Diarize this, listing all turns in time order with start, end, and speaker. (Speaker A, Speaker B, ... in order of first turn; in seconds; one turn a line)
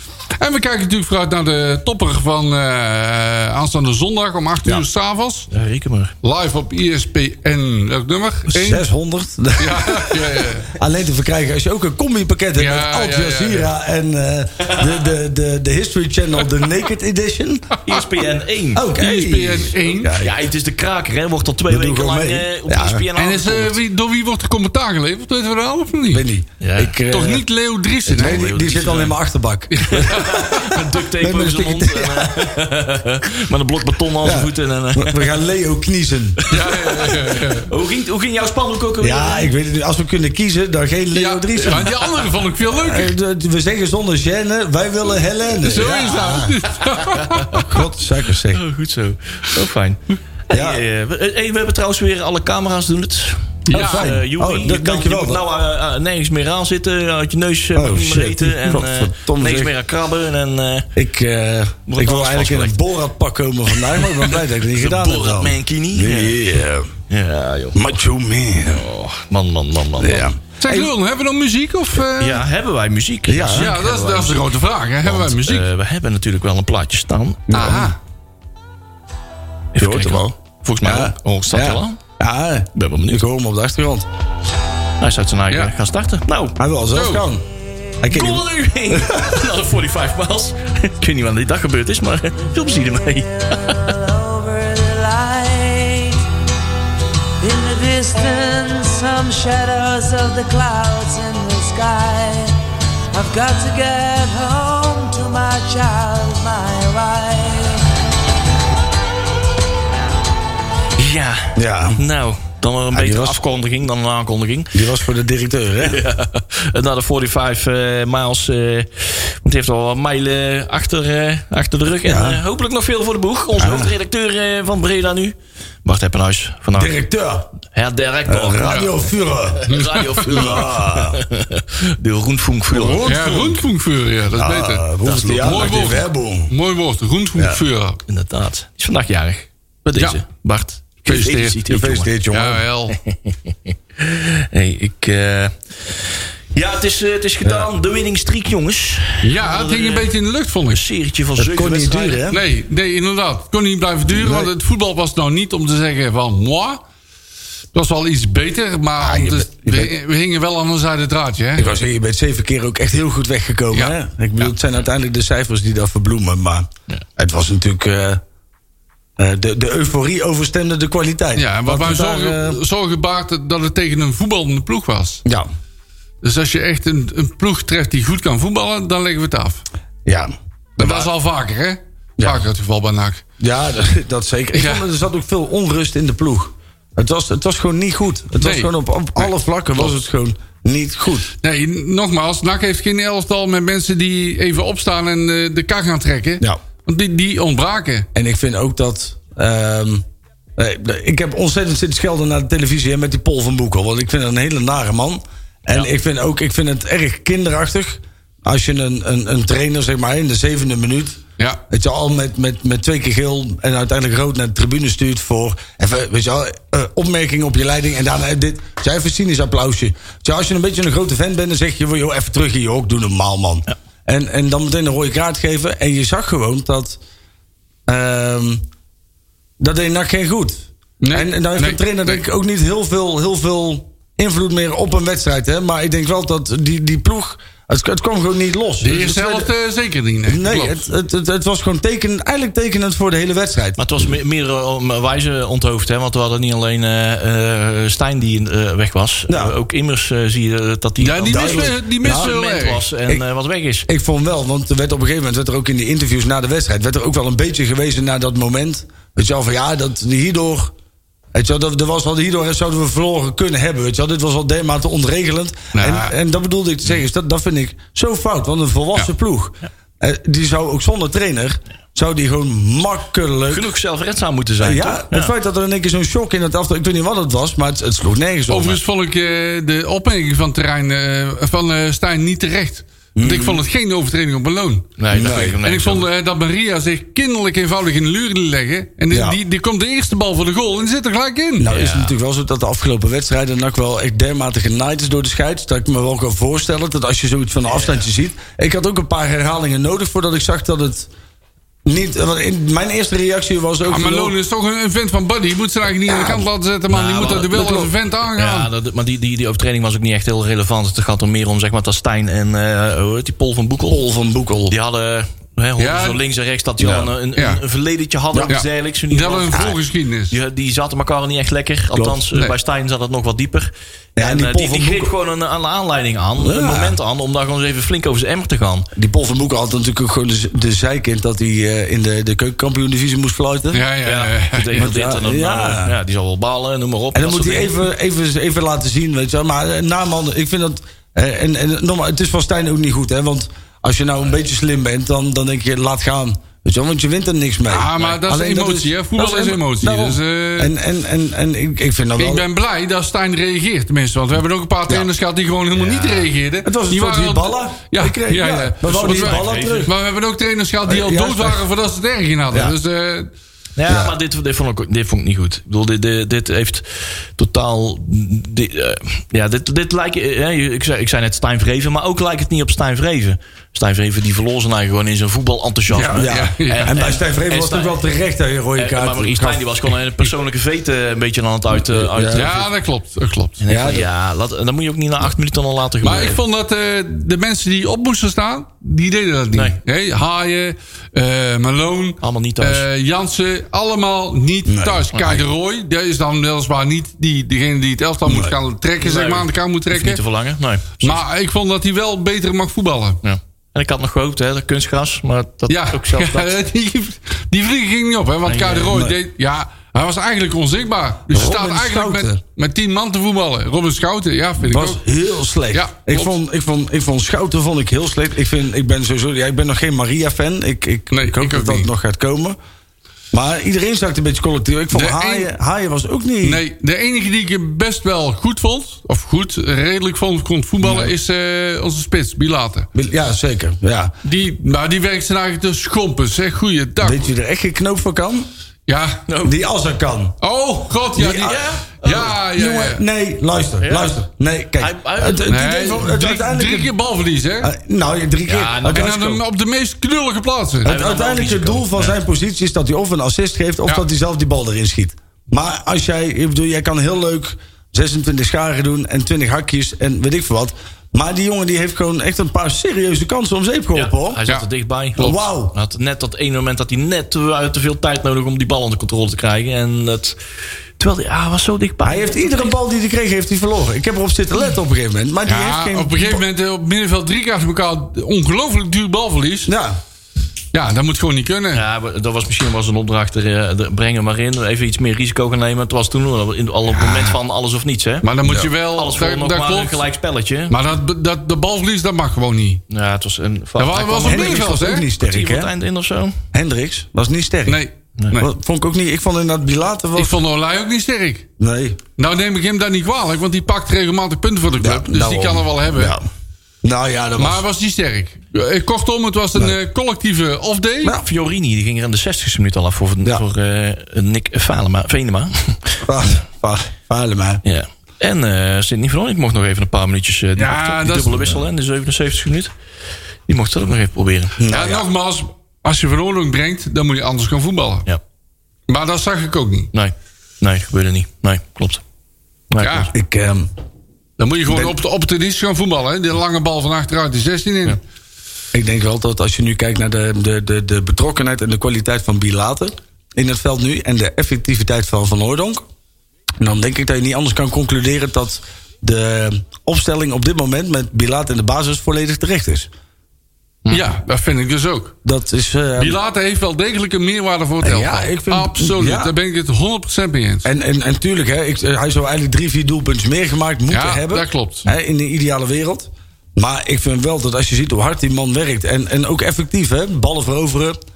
Speaker A: 0.4-5.5
Speaker B: 5.5-6.1
Speaker A: 6.2-8.8
Speaker C: 8.5-17.8
Speaker A: 9.6-10.7
Speaker A: 12.6-13.7
Speaker B: 14.6-14.9
Speaker B: 17.8-19.0
Speaker C: 18.7-20.3
Speaker A: 19.0-20.2
Speaker B: 20.2-23.8
Speaker C: 21.7-23.0
Speaker A: 23.2-26.2
Speaker C: 26.1-27.4
Speaker B: 26.6-26.9
Speaker A: 27.1-28.5
Speaker C: 28.1-32.5
Speaker B: 28.1-29.2
Speaker A: 29.7-30.6
Speaker B: 29.9-35.3
Speaker C: 34.2-36.4
Speaker B: 36.4-39.5
Speaker A: 36.5-37.7
Speaker C: 39.0-42.1
Speaker A: 41.1-43.1
Speaker C: 42.8-46.6
Speaker A: 45.6-47.7
Speaker C: 47.6-48.6
Speaker B: 48.5-60.9
Speaker C: 50.5-50.8
Speaker A: 53.7-54.1
Speaker C: 53.7-55.4
Speaker C: 57.8-59.7
Speaker C: 60.9-66.9
Speaker B: 61.9-62.8
Speaker B: 64.0-66.4
Speaker B: 67.1-67.8
Speaker C: 67.7-68.8
Speaker B: 68.6-70.3
Speaker C: 70.0-70.9
Speaker A: 70.6-72.4
Speaker B: 72.2-74.5
Speaker C: 73.3-73.7
Speaker A: 73.5-75.7
Speaker B: 75.0-77.6
Speaker C: 77.5-77.9
Speaker A: 77.5-78.0
Speaker B: 79.7-82.0
Speaker C: 79.8-84.1
Speaker B: 82.8-83.2
Speaker B: 85.0-86.6
Speaker C: 86.6-87.5
Speaker A: 86.9-87.3
Speaker C: 88.0-89.4
Speaker B: 88.1-94.0
Speaker D: 93.9-96.2
Speaker D: 97.4-102.6
Speaker D: 103.1-107.8
Speaker B: 111.0-114.9
Speaker C: 111.5-112.0
Speaker C: 112.9-113.4
Speaker C: 114.7-116.0
Speaker B: 115.8-126.9
Speaker C: 122.0-122.4
Speaker C: 123.6-123.9
Speaker C: 126.8-127.5
Speaker B: 127.6-133.1
Speaker C: 128.3-129.7
Speaker A: 129.7-130.4
Speaker C: 130.2-131.2
Speaker C: 132.7-133.6
Speaker A: 133.0-134.9
Speaker C: 134.4-136.5
Speaker B: 135.0-135.7
Speaker A: 135.4-138.0
Speaker B: 138.1-142.1
Speaker A: 141.1-141.6
Speaker C: 141.7-142.6
Speaker A: 142.3-142.9
Speaker B: 142.9-150.1
Speaker A: 149.2-150.8
Speaker B: 150.6-152.2
Speaker C: 151.4-152.4
Speaker A: 152.3-156.8
Speaker C: 154.1-154.5
Speaker A: 157.7-161.7
Speaker C: 159.0-159.9
Speaker C: 161.6-168.2
Speaker A: 163.7-164.5
Speaker C: 169.2-172.6
Speaker A: 171.4-175.2
Speaker A: 176.2-179.6
Speaker C: 180.1-181.1
Speaker A: 180.8-183.2
Speaker C: 182.2-182.4
Speaker C: 183.4-191.3
Speaker A: 184.5-184.8
Speaker A: 188.4-189.9
Speaker A: 191.4-198.1
Speaker C: 198.1-200.1
Speaker C: 200.6-227.0
Speaker C: 227.9-228.6
Speaker C: 229.6-239.5
Speaker A: 231.0-232.2
Speaker A: 238.8-240.9
Speaker C: 240.3-243.8
Speaker B: 243.8-253.9
Speaker C: 249.3-249.6
Speaker A: 251.0-252.8
Speaker C: 251.2-252.3
Speaker C: 253.9-260.7
Speaker C: 261.3-273.7
Speaker A: 265.8-266.1
Speaker B: 273.5-275.3
Speaker C: 274.6-278.8
Speaker A: 278.5-291.7
Speaker C: 283.1-283.6
Speaker B: 285.0-286.1
Speaker C: 285.1-285.6
Speaker C: 289.1-289.4
Speaker C: 291.6-301.1
Speaker B: 291.7-292.1
Speaker B: 297.7-298.0
Speaker C: 301.8-304.3
Speaker A: 303.9-308.7
Speaker C: 306.1-306.5
Speaker B: 306.9-307.6
Speaker C: 307.2-307.9
Speaker B: 308.4-314.0
Speaker C: 313.9-314.8
Speaker B: 314.7-319.8
Speaker A: 315.8-316.2
Speaker C: 316.8-317.1
Speaker A: 317.4-317.6
Speaker A: 318.5-320.3
Speaker B: 320.3-328.9
Speaker C: 321.9-322.2
Speaker C: 324.1-325.1
Speaker C: 326.4-327.0
Speaker C: 328.9-333.8
Speaker A: 333.7-334.9
Speaker B: 334.0-337.8
Speaker C: 334.7-335.9
Speaker C: 337.1-352.5
Speaker A: 347.7-350.7
Speaker A: 352.2-363.3
Speaker B: 355.8-356.3
Speaker C: 356.6-359.9
Speaker B: 358.9-359.9
Speaker C: 360.9-361.6
Speaker B: 363.8-377.9
Speaker C: 363.9-364.1
Speaker A: 375.9-377.0
Speaker C: 376.1-379.6
Speaker B: 378.8-382.7
Speaker C: 381.7-382.5
Speaker A: 382.3-383.6
Speaker B: 383.6-386.4
Speaker C: 383.7-384.0
Speaker A: 386.0-400.2
Speaker B: 389.5-389.8
Speaker B: 392.2-392.9
Speaker C: 394.6-395.0
Speaker B: 395.1-395.4
Speaker C: 398.2-398.6
Speaker B: 399.0-401.2
Speaker A: 401.0-403.2
Speaker B: 403.2-406.5
Speaker A: 405.7-415.0
Speaker B: 408.5-409.0
Speaker C: 408.9-409.2
Speaker C: 411.3-412.4
Speaker C: 414.6-422.6
Speaker A: 415.7-416.3
Speaker A: 421.1-421.9
Speaker C: 423.3-426.6
Speaker A: 424.9-425.5
Speaker A: 426.4-432.9
Speaker C: 430.8-431.1
Speaker C: 432.9-434.1
Speaker A: 434.2-437.3
Speaker C: 437.0-438.5
Speaker A: 438.9-439.2
Speaker B: 439.3-439.5
Speaker C: 439.4-440.4
Speaker A: 440.4-443.0
Speaker C: 441.1-446.9
Speaker B: 441.4-442.3
Speaker B: 443.8-444.2
Speaker B: 444.8-445.5
Speaker A: 445.5-447.7
Speaker C: 447.6-449.4
Speaker B: 448.5-449.1
Speaker A: 448.8-450.9
Speaker C: 450.8-464.4
Speaker B: 450.9-452.1
Speaker B: 463.9-470.4
Speaker C: 465.2-465.8
Speaker B: 471.0-472.7
Speaker C: 472.0-476.4
Speaker A: 475.5-479.7
Speaker C: 479.6-480.0
Speaker A: 480.7-481.9
Speaker B: 481.7-490.8
Speaker A: 488.2-490.0
Speaker A: 490.7-492.8
Speaker B: 492.9-496.4
Speaker A: 493.8-495.1
Speaker C: 494.2-495.7
Speaker C: 496.5-497.8
Speaker A: 497.7-498.5
Speaker C: 498.4-500.4
Speaker A: 500.1-501.5
Speaker C: 501.6-502.0
Speaker A: 502.2-506.1
Speaker C: 504.8-506.2
Speaker C: 506.8-507.6
Speaker A: 507.4-511.2
Speaker B: 511.2-516.0
Speaker C: 516.0-517.6
Speaker B: 517.6-522.7
Speaker A: 520.6-521.6
Speaker B: 523.5-524.6
Speaker C: 524.6-525.1
Speaker A: 524.7-528.0
Speaker A: 528.9-529.9
Speaker B: 529.9-532.0
Speaker B: 532.7-533.1
Speaker A: 532.8-533.1
Speaker C: 533.1-533.7
Speaker A: 534.4-538.0
Speaker C: 534.7-535.0
Speaker C: 538.7-545.9
Speaker C: 546.6-552.9
Speaker A: 553.9-555.1
Speaker C: 555.2-556.2
Speaker A: 556.0-560.7
Speaker C: 557.8-559.3
Speaker C: 560.6-571.0
Speaker A: 563.9-564.9